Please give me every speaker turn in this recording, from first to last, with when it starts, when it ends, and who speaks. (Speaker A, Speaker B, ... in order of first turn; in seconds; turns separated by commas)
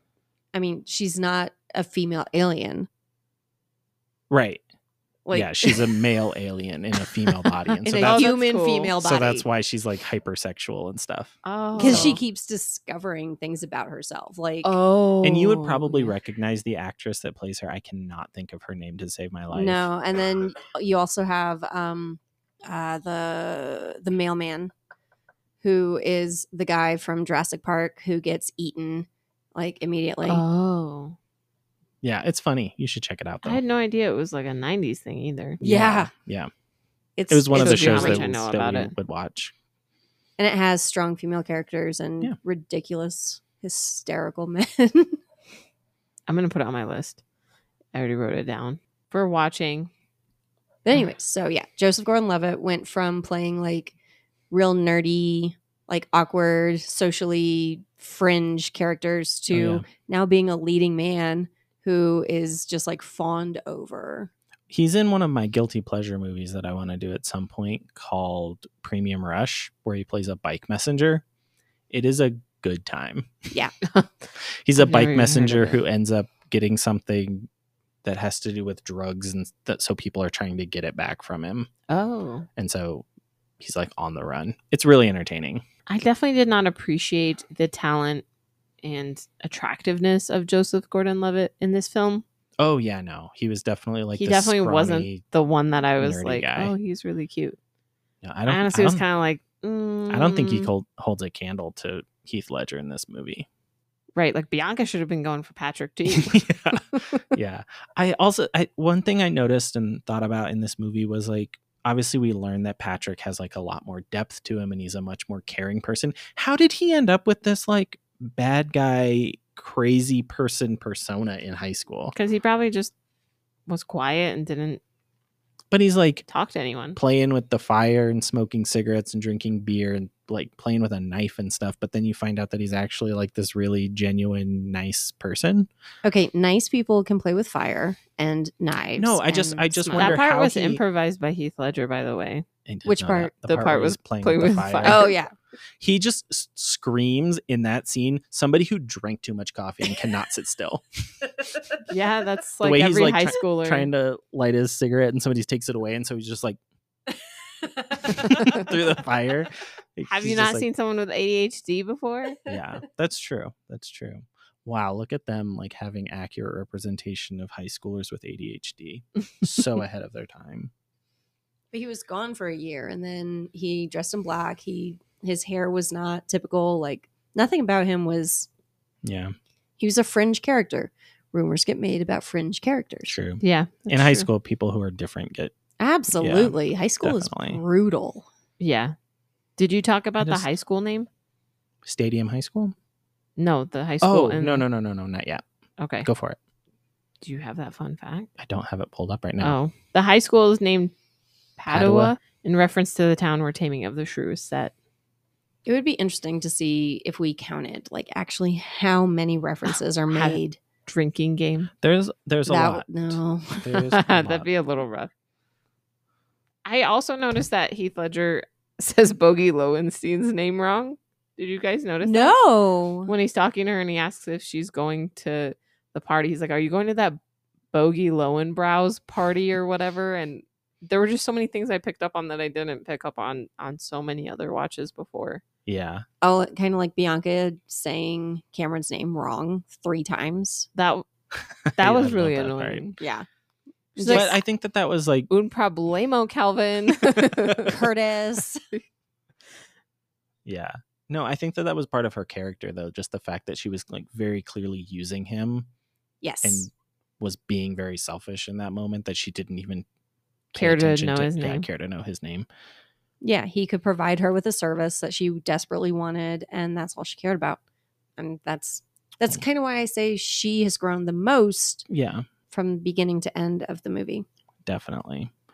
Speaker A: 0.5-2.9, Speaker B: 4.3-4.6, Speaker A: 5.3-6.0, Speaker B: 5.3-8.3, Speaker A: 7.8-9.4, Speaker C: 8.0-8.9, Speaker B: 9.0-12.2, Speaker C: 11.4-12.2, Speaker A: 11.8-14.8, Speaker C: 14.6-16.1, Speaker B: 15.2-19.9, Speaker A: 19.5-24.7, Speaker A: 25.6-30.4, Speaker C: 30.3-31.2, Speaker B: 32.0-33.6, Speaker C: 33.4-35.6, Speaker B: 35.6-36.5, Speaker A: 35.6-36.1, Speaker A: 37.2-38.3, Speaker B: 37.3-39.5, Speaker C: 37.5-38.9, Speaker A: 40.4-45.2, Speaker C: 46.3-47.2, Speaker C: 47.9-49.9, Speaker A: 50.9-53.9, Speaker A: 54.5-64.3, Speaker B: 59.5-59.9, Speaker B: 64.7-71.2, Speaker B: 71.9-73.5, Speaker B: 74.7-77.5, Speaker C: 74.8-75.8, Speaker B: 78.0-81.7, Speaker C: 81.9-82.5, Speaker B: 82.6-83.1, Speaker B: 83.6-85.7, Speaker C: 85.9-88.2, Speaker C: 88.8-92.2, Speaker B: 92.6-95.2, Speaker C: 94.2-97.6, Speaker B: 96.0-96.7, Speaker B: 98.2-99.0, Speaker C: 98.5-100.7, Speaker B: 100.1-103.5, Speaker C: 104.2-107.2, Speaker B: 106.1-122.1, Speaker C: 122.1-122.9, Speaker C: 123.7-124.8, Speaker B: 125.7-126.2, Speaker C: 126.3-127.0, Speaker B: 127.0-135.7, Speaker A: 136.0-140.2, Speaker B: 139.0-140.8, Speaker C: 140.0-142.4, Speaker B: 142.7-145.1, Speaker A: 142.9-143.3, Speaker C: 143.5-145.2, Speaker A: 144.8-145.3, Speaker B: 145.8-150.8, Speaker C: 151.9-153.9, Speaker B: 152.6-156.6, Speaker B: 158.1-160.7, Speaker C: 160.1-162.4, Speaker B: 162.5-170.7, Speaker A: 171.7-178.5, Speaker B: 179.0-179.3, Speaker A: 179.8-183.2, Speaker B: 183.1-185.6, Speaker C: 183.4-184.3, Speaker A: 185.8-188.3, Speaker B: 186.1-187.6, Speaker C: 188.6-188.9, Speaker C: 189.6-191.1, Speaker B: 190.2-190.5, Speaker B: 191.8-192.7, Speaker C: 193.4-194.7, Speaker B: 194.0-195.4, Speaker C: 195.8-196.1, Speaker B: 196.0-196.4, Speaker C: 197.2-198.3, Speaker B: 198.4-199.6, Speaker C: 199.4-200.9, Speaker C: 201.6-204.7, Speaker B: 201.7-202.2, Speaker A: 205.7-210.6, Speaker C: 210.1-211.7, Speaker B: 211.8-214.5, Speaker A: 212.5-213.8, Speaker C: 213.9-215.1, Speaker C: 216.7-222.3, Speaker A: 222.0-223.1, Speaker C: 223.1-227.2, Speaker C: 227.7-235.4, Speaker B: 235.7-236.1, Speaker A: 236.2-240.7, Speaker C: 240.8-241.1, Speaker B: 241.7-242.9, Speaker C: 241.8-243.0, Speaker A: 243.0-243.3, Speaker A: 244.0-244.3, Speaker C: 244.0-244.4, Speaker B: 244.1-245.3, Speaker C: 245.3-247.7, Speaker B: 247.3-247.6, Speaker A: 247.7-248.6, Speaker B: 250.4-255.7, Speaker A: 256.2-256.7, Speaker B: 256.4-259.9, Speaker B: 260.5-262.5, Speaker C: 260.6-261.7, Speaker A: 263.2-267.6, Speaker A: 268.2-271.9, Speaker B: 271.9-272.3, Speaker A: 272.5-274.3, Speaker B: 274.7-275.3